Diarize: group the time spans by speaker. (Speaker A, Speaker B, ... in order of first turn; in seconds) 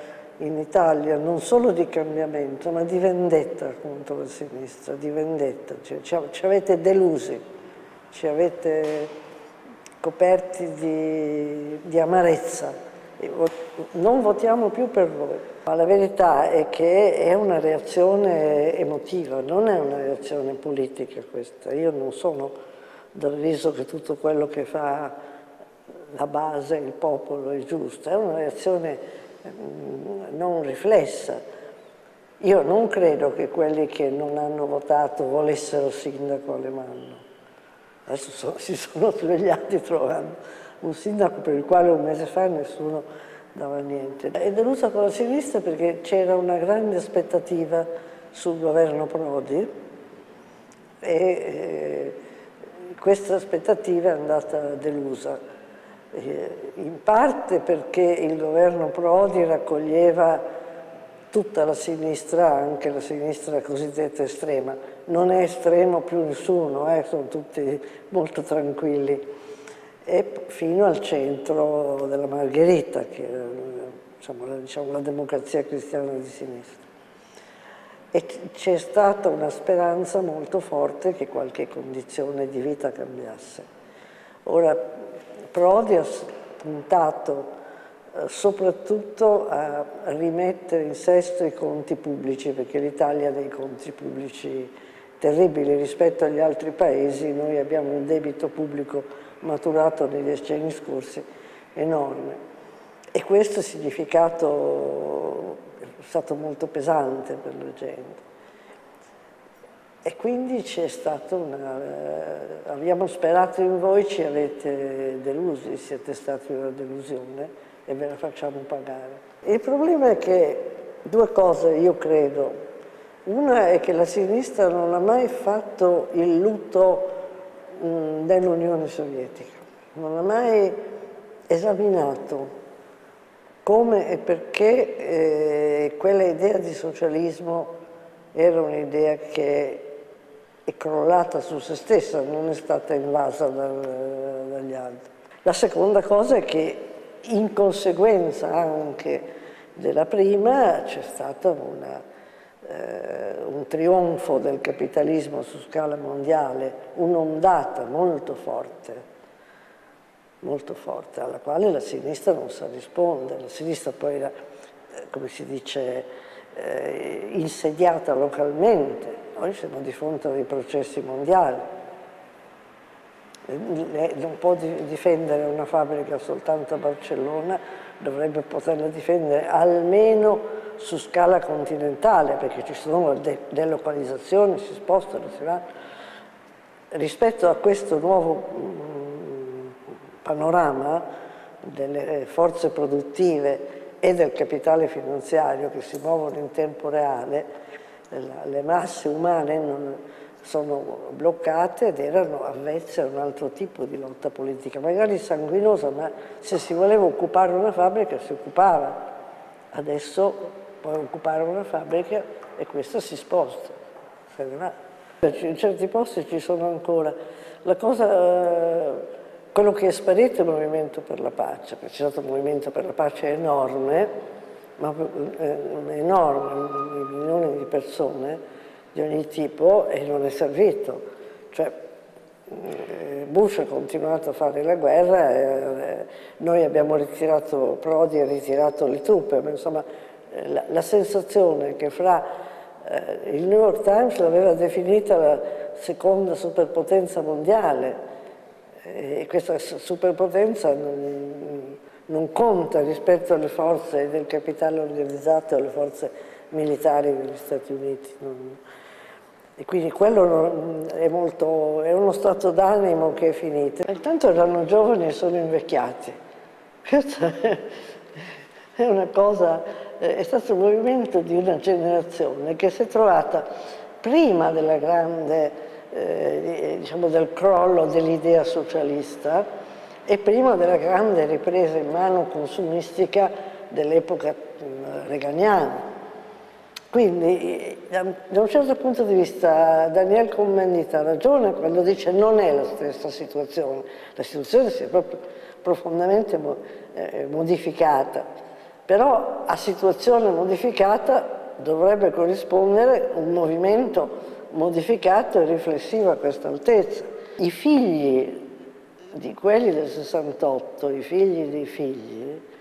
Speaker A: 0.4-7.4, 8.1-9.1, 10.0-22.5, 23.1-25.1, 26.1-31.4, 32.4-37.2, 38.1-49.7, 51.0-52.2, 53.0-55.4, 56.1-60.4, 61.3-69.2, 70.1-76.8, 78.1-83.7, 84.5-84.9, 85.5-87.5, 88.2-101.2, 101.8-102.4, 103.2-108.2, 110.0-122.5, 123.3-127.2, 127.8-130.8, 131.5-132.5, 133.7-137.7, 138.3-139.8, 140.7-149.2, 149.8-152.0, 152.6-159.0, 160.4-164.3, 165.1-171.7, 173.5-185.6, 186.9-191.1, 191.6-197.5, 198.1-209.0, 209.7-213.8, 214.3-224.1, 224.8-228.4, 228.9-231.8, 232.5-242.2, 242.8-248.0, 248.8-258.6, 259.6-266.2, 266.9-267.7, 268.8-273.4, 274.0-279.5, 280.1-285.8, 286.9-298.2, 298.9-308.4, 309.1-312.4